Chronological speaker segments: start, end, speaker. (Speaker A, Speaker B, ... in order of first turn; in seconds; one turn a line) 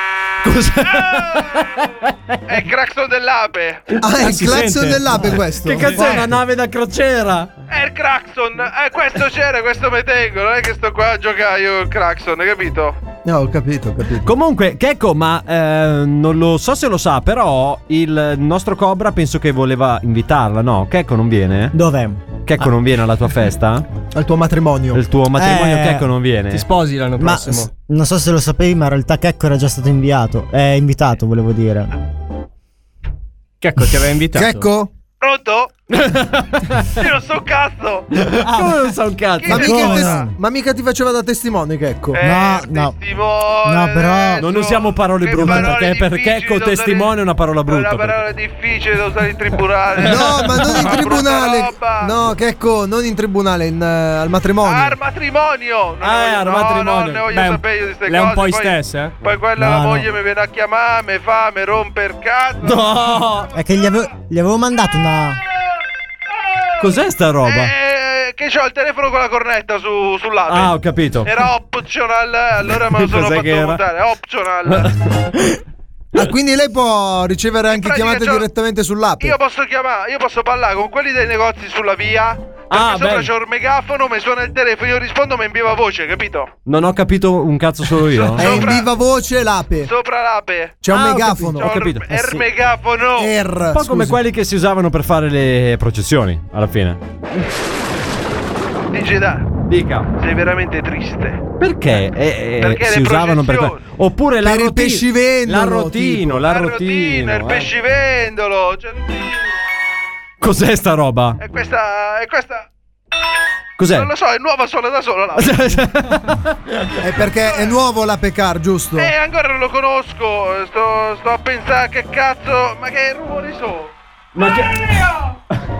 Speaker A: 0.4-2.1
Speaker B: 0.8-1.6
Speaker B: 2.5-3.8
Speaker C: 4.0-6.2
Speaker D: 4.1-5.8
Speaker A: 5.6-7.5
Speaker B: 7.7-12.9
Speaker C: 13.2-14.2
Speaker A: 14.2-21.7
Speaker E: 21.7-22.2
Speaker A: 22.4-23.9
Speaker C: 24.1-25.0
Speaker A: 24.9-26.6
Speaker E: 25.3-26.1
Speaker D: 26.5-27.7
Speaker E: 27.2-31.9
Speaker D: 33.6-34.7
Speaker C: 34.3-34.9
Speaker B: 35.2-35.7
Speaker A: 35.9-36.9
Speaker B: 36.9-38.1
Speaker A: 38.1-40.0
Speaker B: 39.4-40.2
Speaker C: 39.5-42.2
Speaker E: 39.5-40.3
Speaker B: 42.1-47.1
Speaker E: 42.2-43.0
Speaker E: 43.6-44.4
Speaker A: 44.4-48.2
Speaker B: 47.6-52.1
Speaker C: 50.0-55.0
Speaker B: 54.6-63.2
Speaker A: 56.0-57.2
Speaker D: 57.3-59.1
Speaker E: 59.6-60.1
Speaker A: 62.6-63.5
Speaker E: 63.5-65.4
Speaker A: 66.8-67.7
Speaker B: 67.4-74.9
Speaker A: 70.5-71.3
Speaker A: 72.9-73.8
Speaker C: 76.1-79.3
Speaker B: 77.7-78.4
Speaker B: 79.2-86.5
Speaker A: 82.7-83.3
Speaker A: 86.7-88.6
Speaker B: 88.0-88.8
Speaker C: 88.4-89.9
Speaker B: 89.8-90.8
Speaker C: 90.8-91.7
Speaker A: 90.9-92.4
Speaker B: 91.5-93.3
Speaker C: 93.2-94.2
Speaker A: 93.7-97.0
Speaker B: 98.9-99.5
Speaker A: 99.7-100.1
Speaker B: 100.1-101.4
Speaker A: 101.6-107.7
Speaker B: 102.6-103.8
Speaker C: 104.4-106.4
Speaker B: 106.4-109.4
Speaker A: 110.4-111.4
Speaker B: 111.4-112.7
Speaker A: 113.8-114.1
Speaker B: 113.9-115.7
Speaker A: 115.3-116.9
Speaker C: 117.0-119.1
Speaker B: 119.0-123.9
Speaker A: 124.3-125.0